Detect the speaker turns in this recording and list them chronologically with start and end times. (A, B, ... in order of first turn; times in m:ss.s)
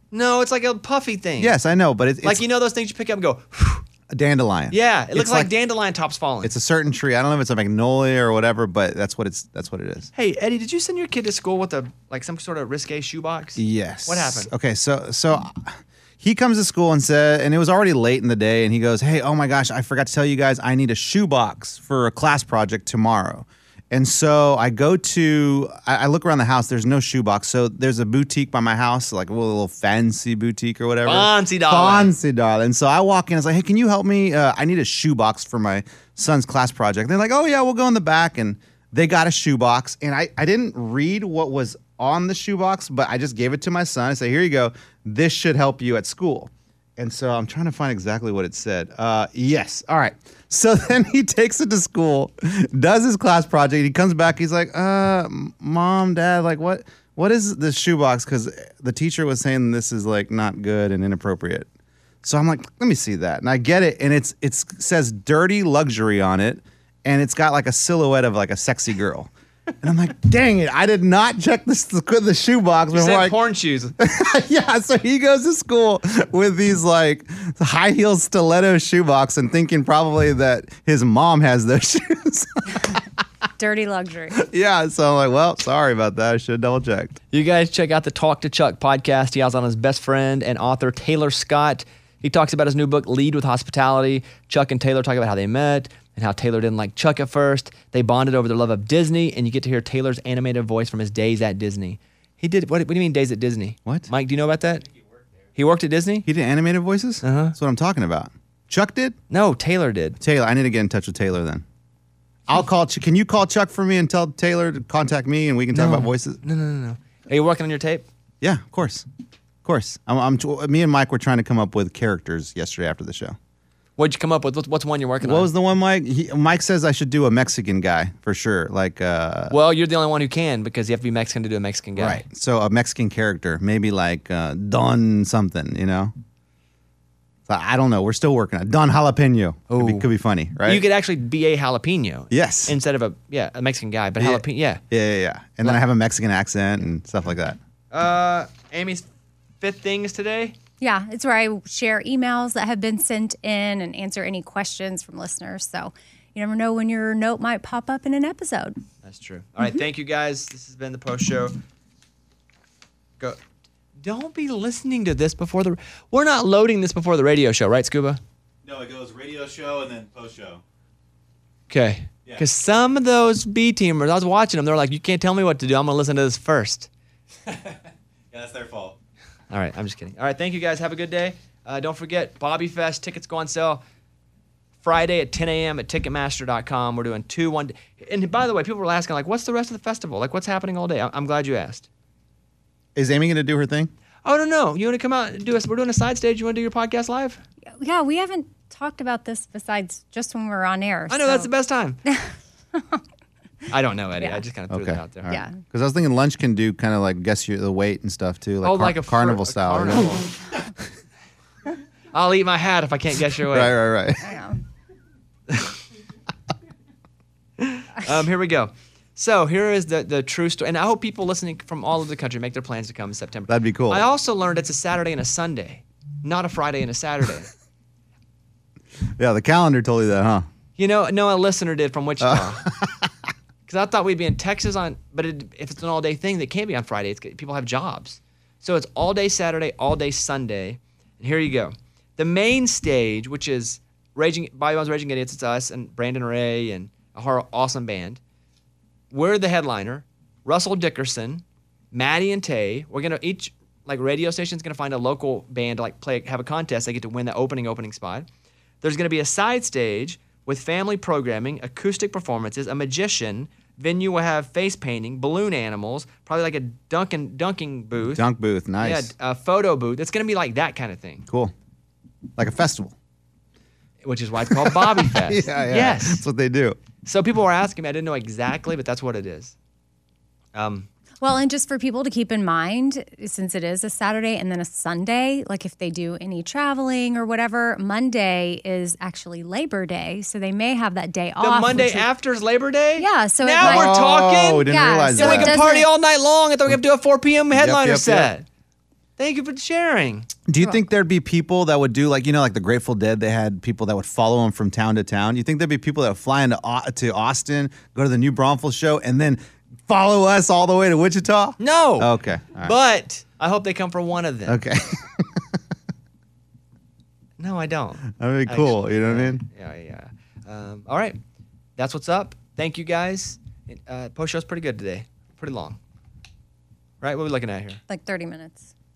0:00.1-0:01.5 A
0:01.4-0:02.4 B
0:02.2-0:03.8 A
0:04.1-0:05.5 B
0:04.7-0:06.5 A
0:06.4-0:10.1 B
0:10.1-0:14.5 A
0:13.6-1:01.7 B
0:31.0-0:32.1 A
1:02.2-1:13.4 B
1:12.9-1:13.9 A
1:14.0-1:23.0 B
1:23.6-1:24.4 C
1:24.3-1:27.2 B
1:27.3-1:44.8 A
1:45.5-1:46.3 A
1:46.2-1:49.2 B
1:47.2-1:47.6 A
1:49.3-1:50.2 A
1:50.2-1:51.6 B
1:52.5-1:56.4 B
1:55.7-1:58.0 A
1:58.4-1:59.1 B
1:59.6-2:03.4 B
2:04.0-2:05.5 A
2:05.2-2:09.6 B
2:09.5-2:12.2 A
2:12.0-2:16.1 B
2:17.5-2:20.8 B
2:19.7-2:20.1 A
2:20.6-2:24.8 A
2:22.3-2:22.7 B
2:24.2-2:27.6 B
2:27.9-2:29.1 A
2:29.6-2:30.6 A
2:30.8-2:38.8 C
2:39.0-2:41.6 A
2:44.0-2:48.2 A
2:48.6-2:50.6 D
2:51.7-2:56.9 A
2:57.4-2:57.8 D
2:58.3-2:59.0 D
2:59.5-3:03.8 A
3:04.8-3:11.9 A
3:13.0-3:13.9 B
3:14.2-3:17.4 A
3:17.8-3:21.5 C
3:21.1-3:22.0 A
3:22.0-3:23.0 C
3:23.7-3:25.3 A
3:24.7-3:30.3 B
3:25.3-3:25.6 C
3:28.6-3:30.3 A
3:32.1-3:33.8 A
3:33.4-3:34.3 B
3:34.2-3:34.6 C
3:35.5-3:35.8 A
3:37.6-3:47.5 A
3:43.5-3:44.0 B
3:49.2-3:50.4 B
3:50.8-3:52.7 A
3:52.2-3:53.1 B
3:53.7-4:08.2 A
4:09.1-4:18.3 A
4:18.8-4:28.2 A
4:28.1-4:29.1 B
4:28.8-4:31.2 A
4:31.3-4:31.5 B
4:32.4-4:32.9 B
4:34.0-4:36.2 A
4:34.5-4:36.8 B
4:37.0-4:39.5 A
4:40.5-4:40.9 A
4:41.2-4:52.1 C
4:51.4-4:58.4 A
4:53.0-4:54.0 C
4:53.6-4:55.6 B
4:54.5-4:55.9 C
4:57.5-4:58.3 B
4:59.2-5:00.3 A
5:00.5-5:12.7 B
5:11.6-5:14.6 A
5:14.5-5:15.6 B
5:17.4-5:21.2 A
5:18.1-5:19.4 B
5:21.8-5:25.8 A
5:27.0-5:27.8 A
5:27.9-5:28.7 C